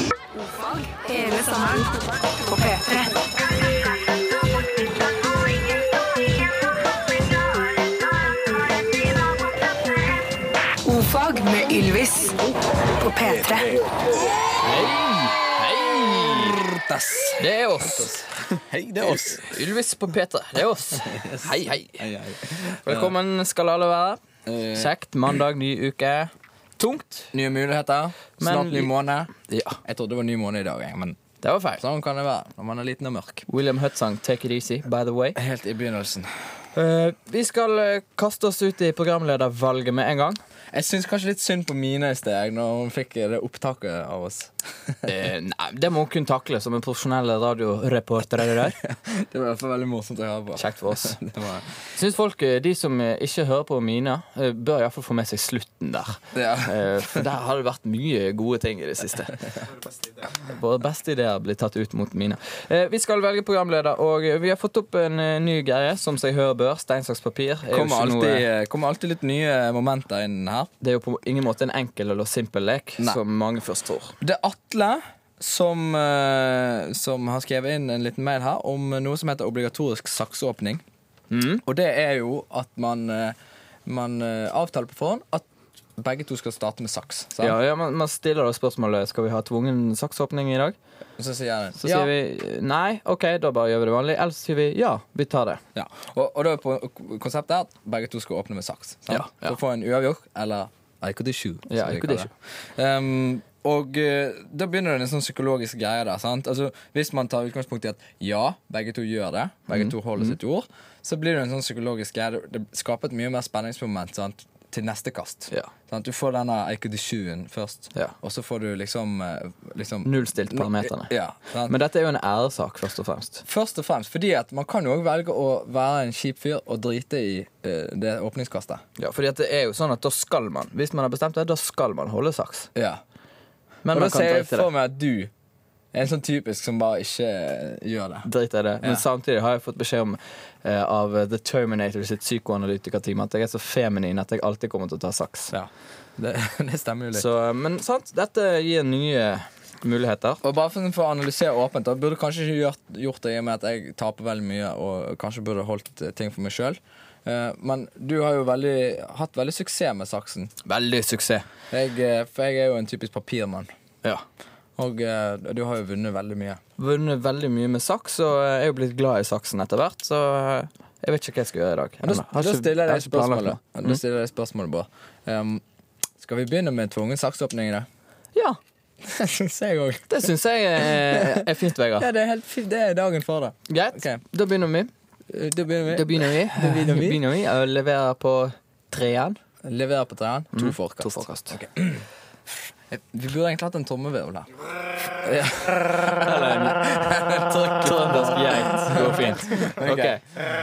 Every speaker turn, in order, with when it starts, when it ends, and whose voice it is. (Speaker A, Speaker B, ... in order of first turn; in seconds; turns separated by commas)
Speaker A: 0.3-3.3, Speaker A: 10.8-13.8, Speaker B: 14.6-16.6, Speaker C: 16.1-17.4, Speaker B: 17.4-22.0, Speaker C: 18.7-19.5, Speaker C: 21.0-23.1, Speaker B: 22.8-24.2, Speaker C: 24.4-24.9, Speaker B: 24.8-27.3, Speaker C: 27.3-29.3, Speaker B: 28.4-29.8, Speaker C: 29.8-31.2, Speaker B: 31.4-31.8, Speaker C: 31.8-33.5, Speaker B: 33.5-35.4, Speaker C: 35.4-36.3, Speaker B: 36.7-40.4, Speaker C: 40.7-45.1, Speaker B: 45.0-48.8, Speaker C: 48.8-51.7, Speaker B: 50.6-51.2, Speaker B: 51.9-59.4, Speaker C: 56.3-57.2, Speaker B: 60.4-68.5, Speaker C: 67.7-70.7, Speaker B: 70.8-74.2, Speaker C: 74.2-80.8, Speaker B: 81.3-81.6, Speaker C: 81.6-87.6, Speaker B: 87.4-90.7, Speaker C: 91.2-92.1, Speaker B: 91.8-95.6, Speaker C: 95.7-121.8, Speaker B: 99.1-99.5, Speaker B: 101.7-102.3, Speaker B: 109.7-110.3, Speaker B: 120.0-121.1, Speaker B: 121.7-123.4, Speaker C: 123.4-128.8, Speaker B: 129.0-132.7, Speaker C: 132.7-133.0, Speaker B: 133.8-134.7, Speaker C: 133.9-135.3, Speaker C: 135.9-138.3, Speaker B: 138.2-145.5, Speaker C: 145.5-147.2, Speaker B: 147.1-150.4, Speaker C: 150.4-160.5, Speaker B: 160.6-161.4, Speaker C: 161.7-163.7, Speaker C: 164.8-166.6, Speaker B: 166.8-174.0, Speaker C: 172.0-175.6, Speaker C: 176.2-177.9, Speaker C: 179.0-184.2, Speaker B: 180.1-182.1, Speaker B: 183.7-184.9, Speaker C: 185.3-187.2, Speaker B: 185.9-189.4, Speaker C: 189.6-192.0, Speaker B: 190.5-191.6, Speaker C: 192.9-194.5, Speaker C: 195.1-200.2, Speaker B: 196.2-197.0, Speaker B: 197.8-200.2